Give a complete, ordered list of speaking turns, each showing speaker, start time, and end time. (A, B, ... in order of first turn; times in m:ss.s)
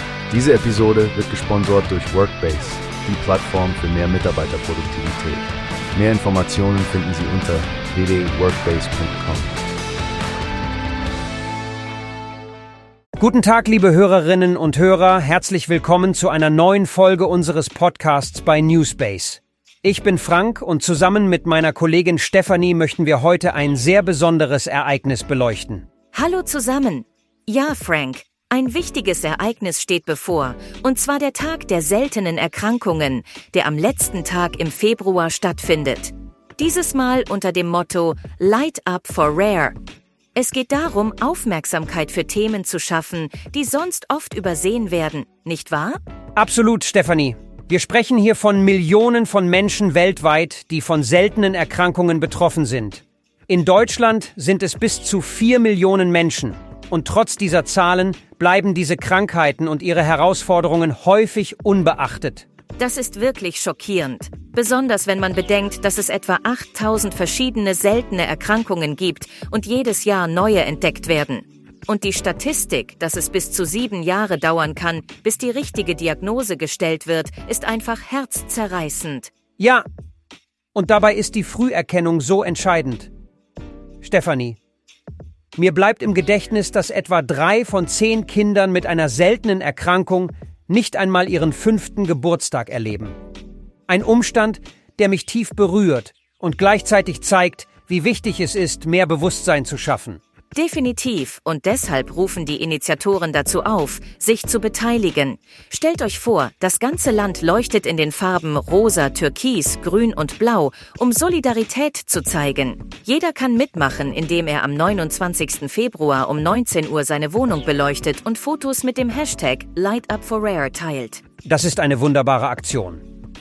0:00.3-0:09.6 A
0:13.2-0:25.8 B
0:26.1-0:39.8 C
0:40.3-0:46.0 C
0:46.4-1:02.4 B
1:02.8-1:19.3 C
1:19.6-1:19.8 B
1:20.7-1:23.1 B
1:24.0-1:24.6 B
1:25.6-1:33.1 B
1:33.9-1:40.2 B
1:40.5-2:01.2 C
2:01.4-2:03.0 B